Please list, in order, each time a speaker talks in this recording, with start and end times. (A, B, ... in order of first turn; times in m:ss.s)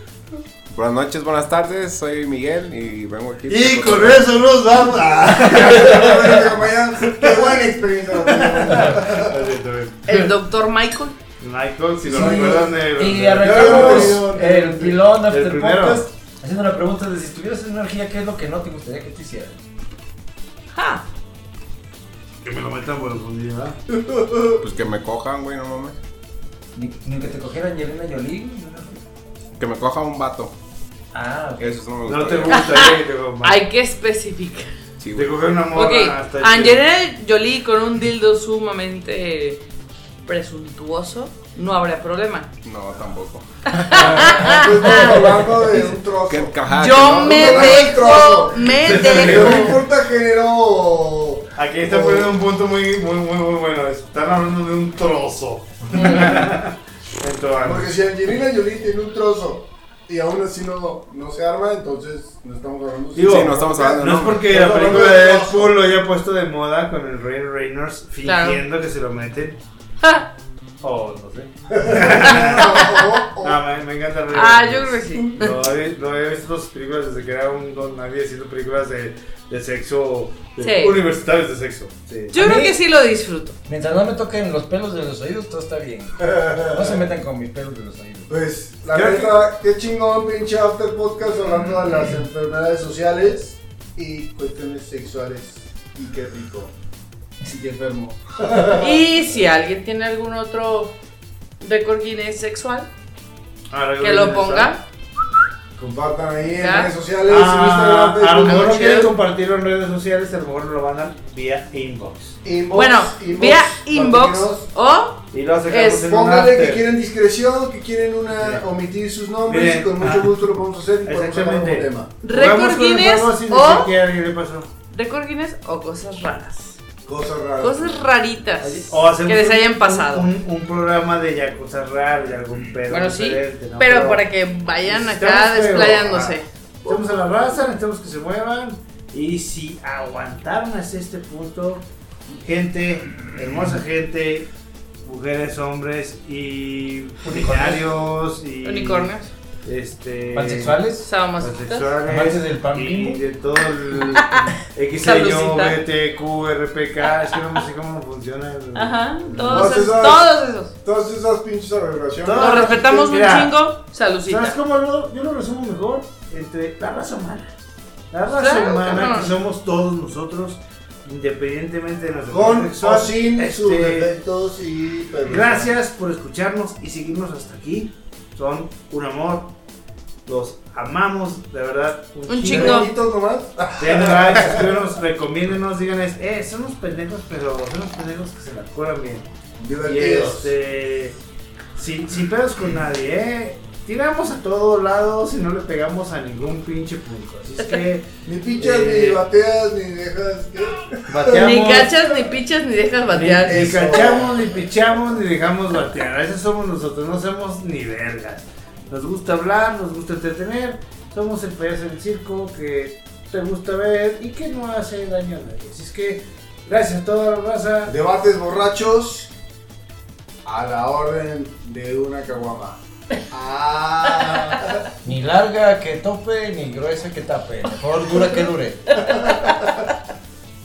0:00.7-0:04.3 A
0:03.5-0:07.6 B
0:05.3-0:09.4 C
0:08.2-0:10.3 B
0:10.0-0:11.2 D
0:11.4-0:14.4 B
0:12.0-0:12.7 C
0:12.2-0:19.6 E
0:13.4-0:14.9 C
0:15.2-0:16.1 B
0:20.7-0:21.0 D
0:22.4-0:23.8 B
0:24.1-0:24.4 C
0:24.6-0:26.0 A
0:26.7-0:29.0 E
0:29.6-0:30.5 A
0:31.1-0:31.9 E
0:31.6-0:32.6 A
0:32.0-0:33.6 B
0:32.5-0:34.7 D
0:35.0-0:35.4 A
0:35.1-0:36.8 B
0:35.7-0:39.6 D
0:40.2-0:42.5 D
0:42.6-0:43.4 A
0:43.7-0:45.4 D
0:43.9-0:52.3 C
0:46.3-0:47.9 A
0:46.7-0:49.8 D
0:48.6-0:49.8 B
0:51.6-0:57.9 B
0:55.9-0:56.2 D
0:57.6-1:05.7 C
1:03.1-1:09.6 B
1:03.2-1:04.5 A
1:08.2-1:08.6 D
1:10.0-1:10.3 D
1:10.8-1:22.3 B
1:11.7-1:13.6 C
1:12.3-1:13.1 D
1:14.3-1:15.6 D
1:20.6-1:21.0 D
1:22.3-1:23.6 D
1:22.3-1:22.8 E
1:23.6-1:28.3 E
1:26.3-1:27.0 C
1:28.3-1:36.7 C
1:28.9-1:29.4 B
1:37.4-1:39.0 C
1:38.8-1:40.9 D
1:41.6-1:42.9 D
1:43.7-1:44.8 B
1:44.0-1:44.8 D
1:45.8-1:48.7 C
1:46.6-1:46.9 D
1:47.3-1:52.4 B
1:48.4-1:49.1 D
1:52.4-1:54.6 C
1:52.7-1:56.0 D
1:55.3-1:56.8 B
1:56.0-2:02.1 C
1:58.4-1:58.6 B
1:59.5-2:00.3 B
2:01.0-2:04.7 B
2:02.2-2:03.9 D
2:04.9-2:06.8 D
2:07.0-2:08.0 C
2:07.6-2:10.3 D
2:08.6-2:14.2 B
2:12.9-2:17.1 D
2:14.8-2:21.8 B
2:22.4-2:24.5 B
2:25.0-2:29.1 B
2:27.2-2:28.0 E
2:28.6-2:29.3 D
2:29.6-2:30.8 B
2:30.3-2:31.0 E
2:31.0-2:31.9 D
2:31.4-2:39.8 B
2:32.1-2:33.2 E
2:34.1-2:35.8 D
2:38.7-2:40.7 D
2:39.5-2:42.8 C
2:42.2-2:43.6 B
2:42.4-2:44.6 D
2:44.2-2:47.4 B
2:48.1-2:54.1 B
2:48.3-2:49.4 D
2:52.3-2:55.8 C
2:55.2-2:59.5 B
3:00.2-3:02.9 B
3:02.3-3:02.9 D
3:02.4-3:04.8 C
3:03.8-3:09.3 B
3:09.6-3:10.5 C
3:09.8-3:11.1 B
3:11.7-3:19.2 B
3:18.2-3:21.3 C
3:21.1-3:21.9 B
3:21.2-3:23.6 D
3:23.1-3:37.9 B
3:23.4-3:24.5 C
3:37.8-3:39.3 C
3:40.4-3:42.8 C
3:43.3-3:44.8 C
3:45.0-3:49.0 E
3:49.0-3:49.9 D